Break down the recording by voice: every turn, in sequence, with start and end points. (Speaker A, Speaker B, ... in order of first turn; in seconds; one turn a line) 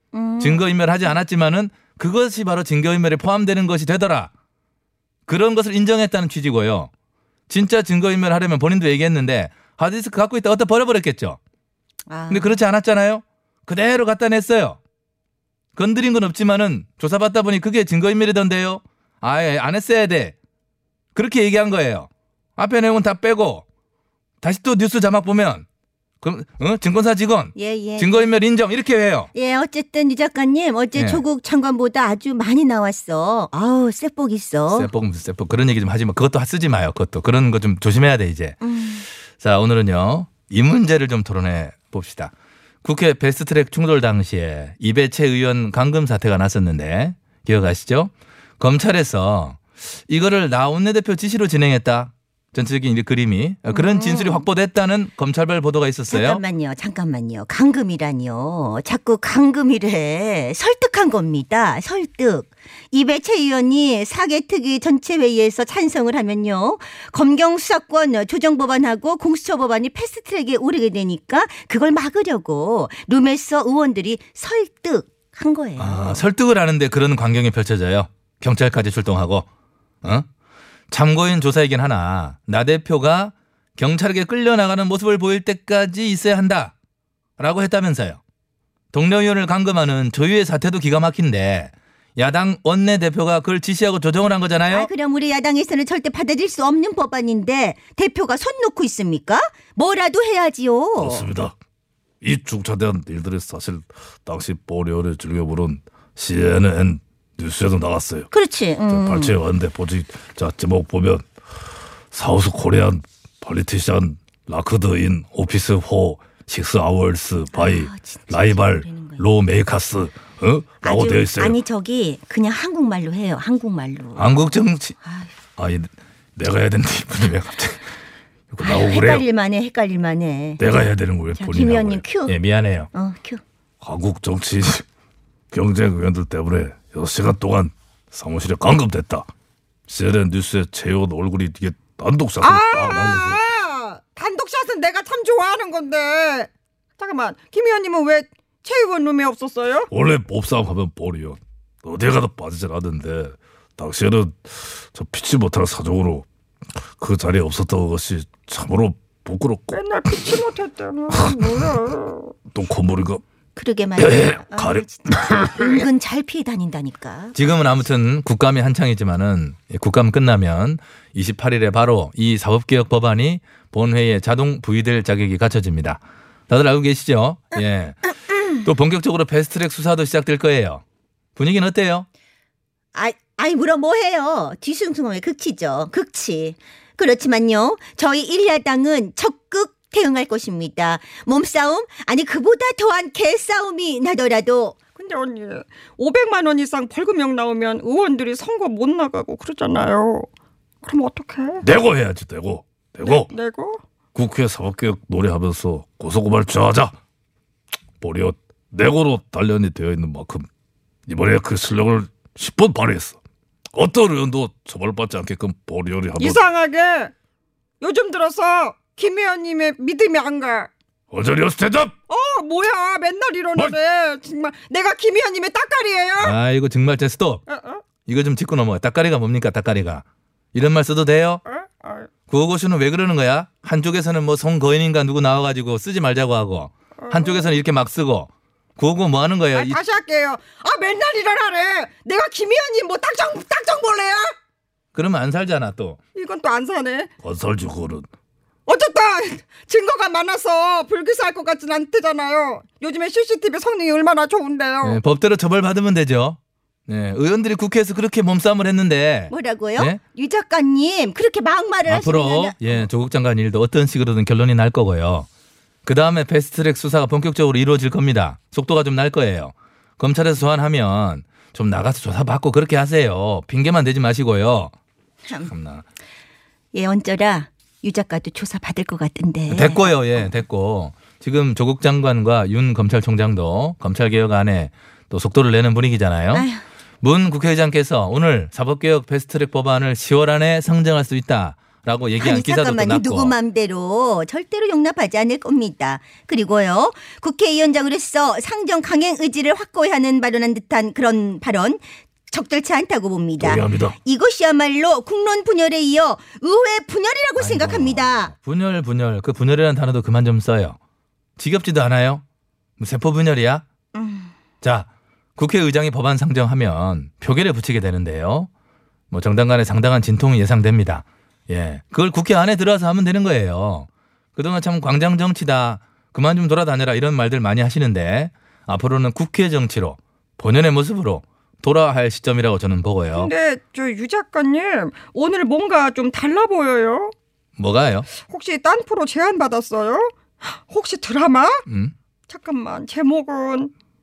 Speaker A: 0.1-0.7
Speaker B: 0.4-4.3
Speaker B: 5.3-6.9
Speaker B: 7.5-11.4
Speaker A: 12.1-12.6
Speaker B: 12.3-14.8
Speaker B: 15.8-20.3
Speaker B: 21.1-23.6
Speaker B: 24.4-25.6
Speaker B: 26.2-29.3
Speaker A: 27.5-28.3
Speaker A: 29.3-34.9
Speaker B: 30.9-31.2
Speaker B: 34.7-38.6
Speaker A: 38.6-39.0
Speaker B: 39.4-42.3
Speaker B: 42.8-56.4
Speaker A: 53.7-54.4
Speaker A: 56.1-76.2
Speaker B: 75.8-79.5
Speaker B: 80.9-86.7
Speaker B: 87.4-88.2
Speaker B: 88.9-94.9
Speaker A: 94.7-101.3
Speaker C: 101.0-101.5
Speaker C: 102.2-108.3
Speaker A: 108.3-109.4
Speaker C: 108.9-111.2
Speaker C: 112.1-117.8
Speaker A: 117.5-119.3
Speaker C: 118.3-118.8
Speaker C: 119.4-121.6
Speaker A: 120.8-124.5
Speaker B: 124.2-125.0
Speaker A: 125.0-125.3
Speaker B: 125.6-125.9
Speaker B: 126.4-127.8
Speaker C: 128.6-129.2
Speaker A: 128.6-130.6
Speaker C: 130.6-131.9
Speaker A: 131.3-132.4
Speaker B: 132.2-132.9
Speaker A: 132.9-133.4
Speaker C: 133.8-134.8
Speaker C: 135.5-139.3
Speaker C: 139.9-143.4
Speaker D: 142.4-149.9
Speaker C: 149.9-156.2
Speaker C: 157.0-159.8
Speaker D: 159.7-162.3
Speaker C: 161.1-161.5
Speaker C: 162.5-163.2
Speaker A: 163.5-167.3
Speaker C: 164.0-165.8
Speaker B: 167.3-180.8
Speaker B: 181.3-182.1
Speaker A: 182.9-194.8
Speaker D: 194.9-200.3
Speaker D: 200.8-201.6
Speaker C: 201.6-203.3
Speaker D: 203.0-203.8
Speaker C: 204.1-206.9
Speaker C: 208.0-210.5
Speaker C: 211.1-213.2
Speaker C: 213.7-216.4
Speaker D: 216.2-217.1
Speaker D: 217.8-220.7
Speaker C: 221.1-221.9
Speaker D: 222.1-226.3
Speaker B: 226.2-227.4
Speaker D: 227.5-227.8
Speaker B: 228.0-231.4
Speaker D: 231.5-232.1
Speaker B: 232.3-239.8
Speaker D: 237.0-237.5
Speaker D: 239.5-244.3
Speaker B: 244.9-246.0
Speaker D: 246.1-247.1
Speaker C: 247.2-248.1
Speaker D: 248.7-255.0
Speaker B: 254.8-260.0
Speaker A: 259.3-262.9
Speaker B: 261.9-265.3
Speaker B: 265.8-274.7
Speaker A: 275.3-275.5
Speaker B: 275.5-275.8
Speaker A: 276.7-280.3
Speaker B: 279.5-286.5
Speaker A: 286.3-286.6
Speaker B: 287.0-293.3
Speaker A: 292.2-308.3
Speaker C: 303.4-303.9
Speaker B: 307.4-310.8
Speaker B: 311.4-312.2
Speaker B: 312.8-313.6
Speaker A: 313.9-314.3
Speaker B: 314.6-318.5
Speaker B: 319.1-333.3
Speaker D: 333.1-337.1
Speaker B: 337.6-338.1
Speaker D: 338.2-341.6
Speaker B: 341.7-341.9
Speaker D: 342.3-343.7